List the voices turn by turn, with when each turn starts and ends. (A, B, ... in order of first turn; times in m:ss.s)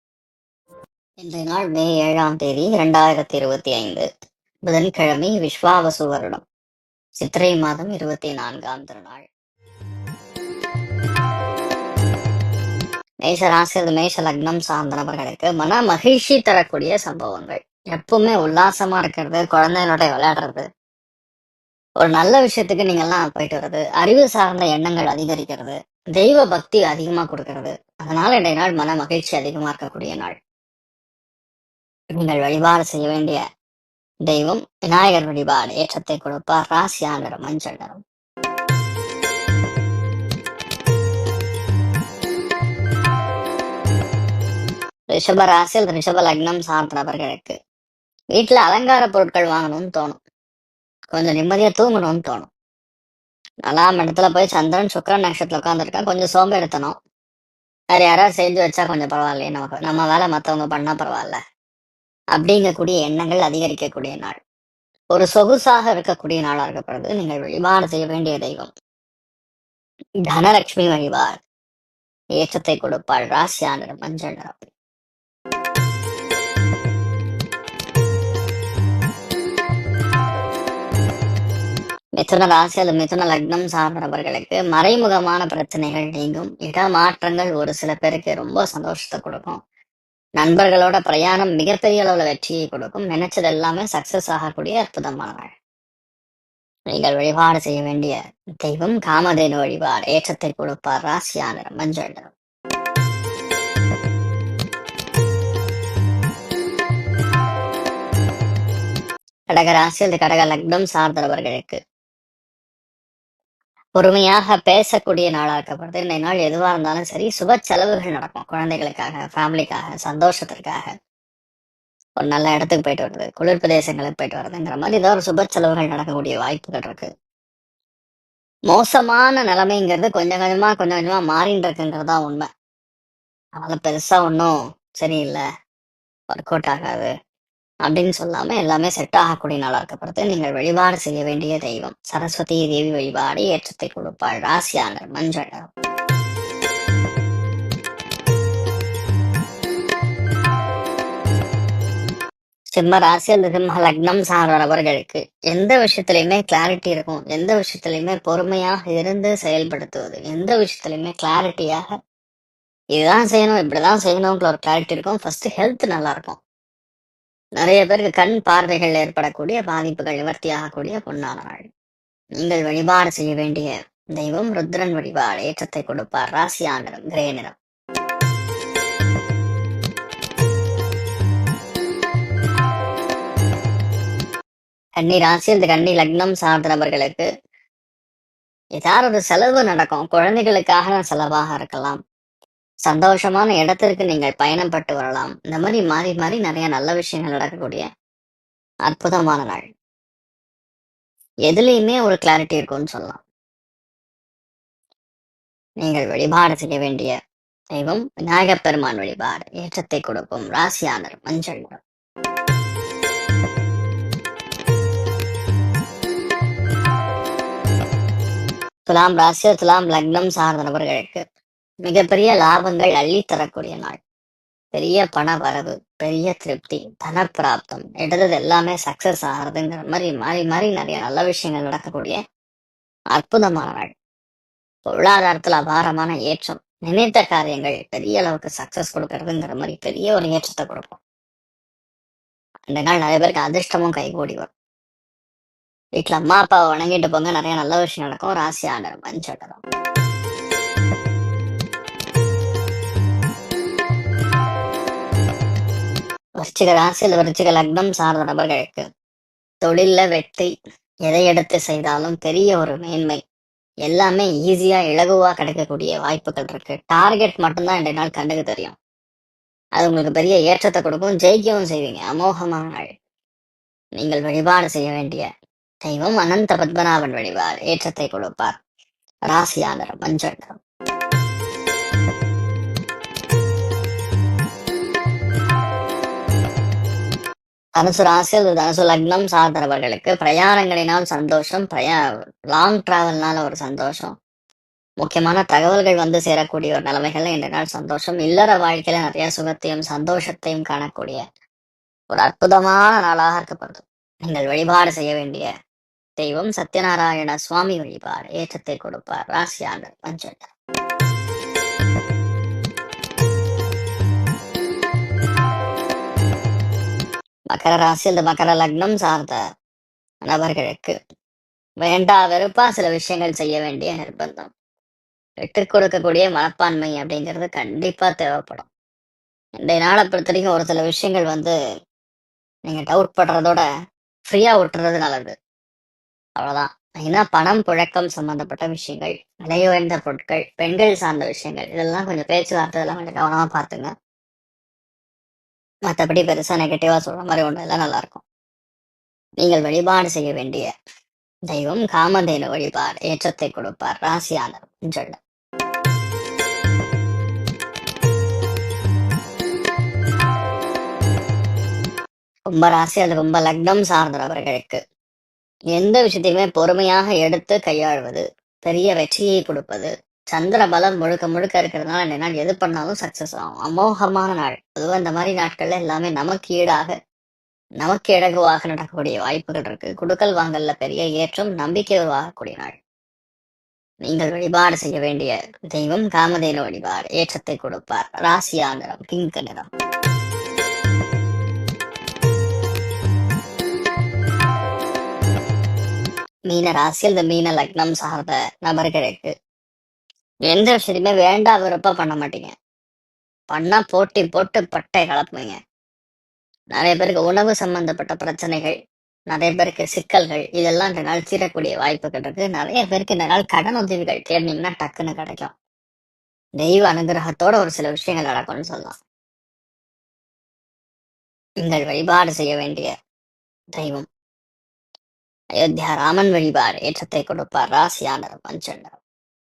0:01.2-0:04.0 A
0:04.6-0:06.4 A
0:07.2-0:09.3 A
0:13.2-0:20.6 A
0:22.0-0:30.4 A
0:32.2-0:33.4 A
0:34.2-0:38.0 A
0:45.1-0:47.6 A
0:48.3-0:50.2 A
0:51.1-0:52.5 A
0:53.6-0:57.0 A
0:57.9-1:01.4 A
1:02.3-1:04.4 A
1:05.1-1:08.7 A
1:10.3-1:11.4 A
1:12.4-1:14.7 A
1:22.2-1:29.6 A
1:30.4-1:35.5 A
1:36.9-1:42.3 A
1:49.5-1:51.8 A
1:54.0-2:00.9 A
2:02.2-2:07.1 A
2:08.7-2:12.5 A
2:13.6-2:15.4 A
2:16.3-2:17.1 A
2:17.8-2:25.7 A
2:32.7-2:41.9 A
2:42.9-2:46.4 A
2:47.6-2:51.7 A
2:52.4-2:57.5 A
3:05.0-3:07.3 A
3:08.8-3:12.0 A
3:12.8-3:17.8 A
3:18.9-3:19.7 A
3:21.5-3:23.2 A
3:25.8-3:27.2 A
3:27.7-3:31.8 A
3:38.8-3:41.2 A
3:41.8-3:44.0 A
3:44.7-3:52.2 A
3:53.1-3:53.9 A
3:54.8-4:01.0 A
4:02.7-4:04.5 A
4:06.0-4:09.6 A
4:16.4-4:18.8 A
4:19.6-4:20.5 A
4:21.1-4:23.2 A
4:23.8-4:28.8 A
4:29.8-4:32.9 A
4:34.0-4:35.3 A
4:35.8-4:38.6 A
4:39.3-4:40.6 A
4:47.8-4:52.0 A
4:52.5-4:54.1 A
4:55.0-5:01.2 A
5:02.1-5:05.5 A
5:06.2-5:10.5 A
5:17.5-5:19.4 A
5:20.2-5:20.9 A
5:21.8-5:24.5 A
5:25.4-5:28.7 A
5:29.6-5:31.5 A
5:32.7-5:33.6 A
5:34.2-5:35.3 A
5:36.4-5:43.9 A
5:45.9-5:48.2 A
5:49.4-5:50.7 A
5:51.5-5:55.2 A
6:02.5-6:04.8 A
6:05.7-6:16.9 A
6:17.8-6:22.8 A
6:24.0-6:29.7 A
6:36.5-6:39.3 A
6:40.5-6:42.5 A
6:43.5-6:45.6 A
6:46.7-6:48.7 A
6:49.3-6:55.5 A
6:56.6-6:58.9 A
7:01.6-7:02.9 A
7:03.7-7:04.1 A
7:05.6-7:09.0 A